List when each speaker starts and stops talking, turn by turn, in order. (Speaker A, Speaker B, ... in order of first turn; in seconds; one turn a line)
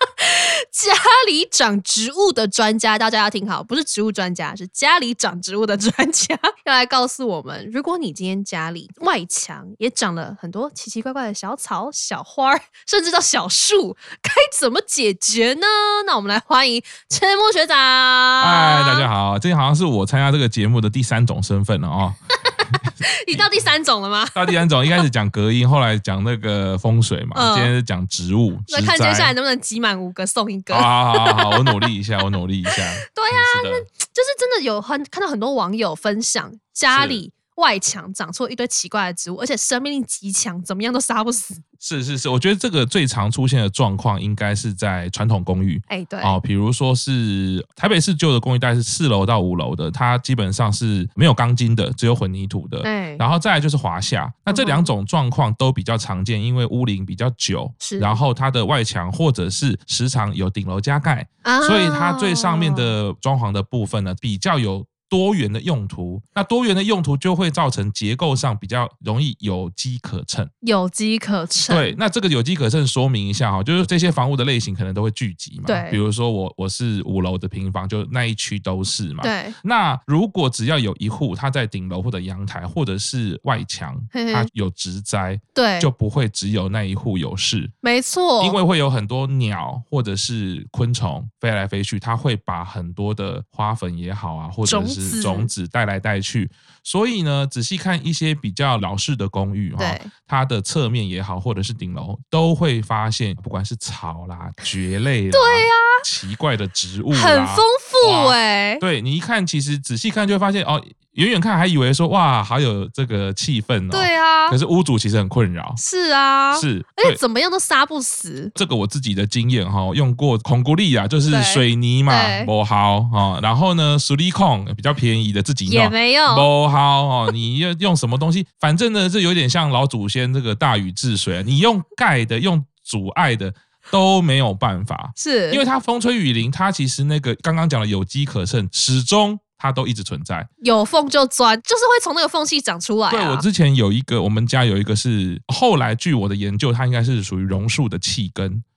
Speaker A: 0.2-19.1
Speaker B: 18.4-22.2
Speaker A: 23.1-24.6
Speaker B: 24.4-29.3
Speaker A: 27.4-27.7
Speaker A: 28.7-31.9
Speaker B: 30.7-33.9
Speaker A: 33.1-41.6
Speaker B: 36.9-37.2
Speaker B: 41.8-70.5
Speaker A: 45.9-46.4
Speaker A: 52.8-53.2
Speaker A: 54.5-54.9
Speaker A: 57.8-58.2
Speaker A: 61.4-63.0
Speaker A: 70.6-72.0
Speaker B: 71.7-87.7
Speaker A: 75.7-76.0
Speaker A: 79.2-79.6
Speaker A: 84.1-84.5
Speaker A: 85.5-85.9
Speaker A: 87.8-88.6
Speaker B: 88.4-115.8
Speaker A: 94.7-95.5
Speaker A: 99.8-100.1
Speaker A: 105.3-106.0
Speaker A: 107.1-108.8
Speaker A: 113.9-114.6
Speaker A: 115.8-118.5
Speaker B: 116.5-117.2
Speaker B: 118.5-140.5
Speaker A: 121.3-122.5
Speaker A: 125.7-126.5
Speaker A: 135.2-135.6
Speaker A: 140.6-143.5
Speaker B: 143.1-148.6